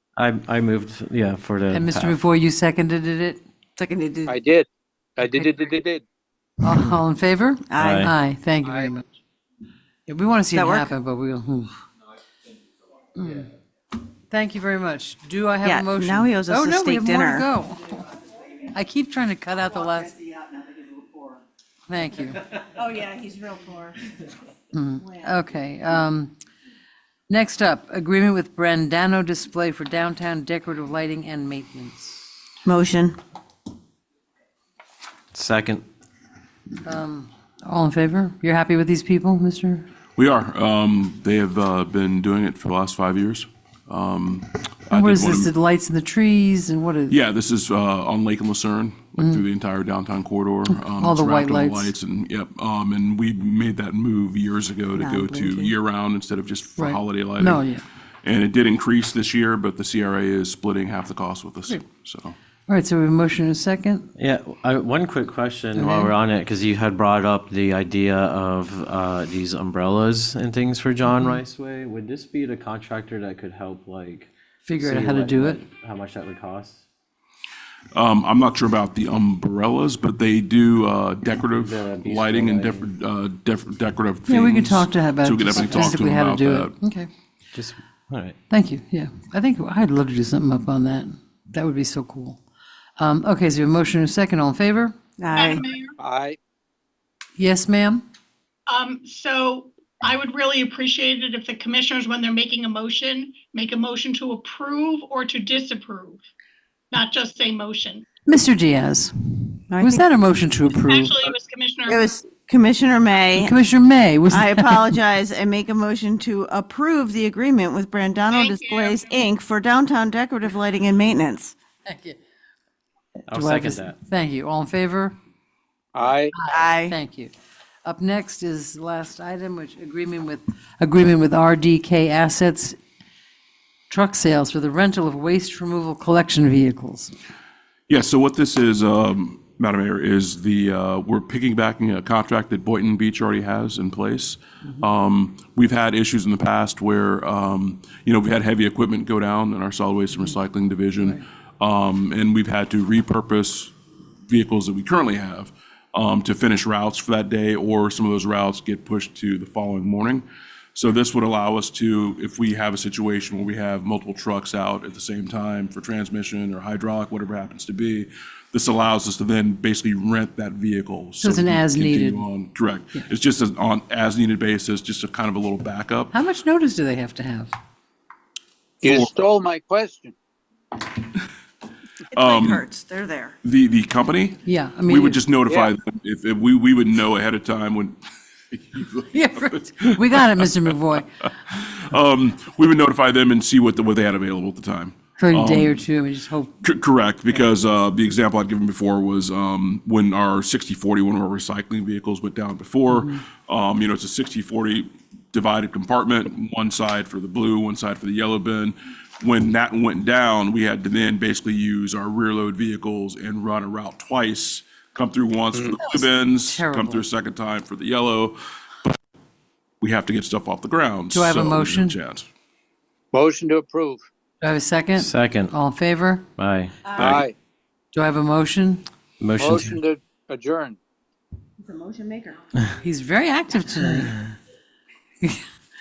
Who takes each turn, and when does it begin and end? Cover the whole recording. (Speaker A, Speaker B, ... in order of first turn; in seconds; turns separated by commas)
Speaker A: 0.2-2.2, Speaker B: 1.7-3.4, Speaker C: 3.8-4.4, Speaker D: 4.3-6.0, Speaker B: 6.6-9.0, Speaker C: 7.7-8.1, Speaker A: 7.8-8.1, Speaker B: 10.1-11.8, Speaker C: 10.5-10.9, Speaker B: 13.2-13.5, Speaker B: 14.3-18.0, Speaker C: 15.6-17.5, Speaker B: 18.7-20.2, Speaker C: 20.2-21.1, Speaker B: 21.9-22.4, Speaker C: 22.8-24.0, Speaker B: 24.7-26.3, Speaker B: 27.3-32.3, Speaker C: 32.6-33.2, Speaker A: 35.3-35.8, Speaker B: 36.8-39.9, Speaker E: 40.2-45.5, Speaker B: 44.9-47.2, Speaker E: 47.1-57.6, Speaker B: 50.8-51.9, Speaker C: 54.9-55.8, Speaker B: 56.8-57.8, Speaker E: 58.2-62.4, Speaker B: 62.7-64.1, Speaker A: 64.2-76.8, Speaker B: 65.8-66.1, Speaker B: 71.1-71.4, Speaker B: 74.7-75.6, Speaker E: 77.9-86.8, Speaker A: 81.6-82.9, Speaker B: 84.3-87.1, Speaker A: 87.5-88.4, Speaker B: 88.5-92.4, Speaker B: 93.0-95.0, Speaker C: 95.2-95.6, Speaker F: 95.3-96.0, Speaker D: 96.0-96.4, Speaker B: 97.4-98.0, Speaker F: 98.7-106.2, Speaker F: 106.9-108.1, Speaker B: 108.3-111.2, Speaker C: 109.7-110.0, Speaker F: 110.8-112.1, Speaker C: 111.9-113.5, Speaker B: 113.4-114.9, Speaker C: 114.3-121.5, Speaker F: 118.3-119.2, Speaker B: 121.8-122.2, Speaker B: 123.3-125.2, Speaker A: 123.3-124.0, Speaker D: 126.0-126.3, Speaker B: 126.3-127.3, Speaker C: 126.5-127.0, Speaker B: 127.8-132.8, Speaker B: 133.9-137.1, Speaker E: 137.9-153.7, Speaker E: 154.3-176.1, Speaker B: 171.2-172.3, Speaker B: 176.1-177.5, Speaker D: 178.8-180.1, Speaker E: 178.8-179.1, Speaker C: 182.1-183.4, Speaker E: 182.2-182.7, Speaker E: 183.4-188.0, Speaker B: 184.4-185.2, Speaker D: 185.5-185.7, Speaker E: 188.5-190.5, Speaker B: 189.1-191.1, Speaker E: 191.5-195.8, Speaker B: 195.2-196.5, Speaker E: 196.6-218.4, Speaker D: 215.5-215.8, Speaker B: 215.8-217.0, Speaker E: 219.8-222.3, Speaker B: 221.1-222.0, Speaker D: 223.1-224.1, Speaker B: 224.4-226.3, Speaker A: 225.0-225.5, Speaker A: 226.4-227.2, Speaker D: 227.0-227.3, Speaker B: 227.9-228.8, Speaker A: 229.2-229.8, Speaker D: 229.4-230.8, Speaker C: 231.6-232.4, Speaker B: 232.8-234.2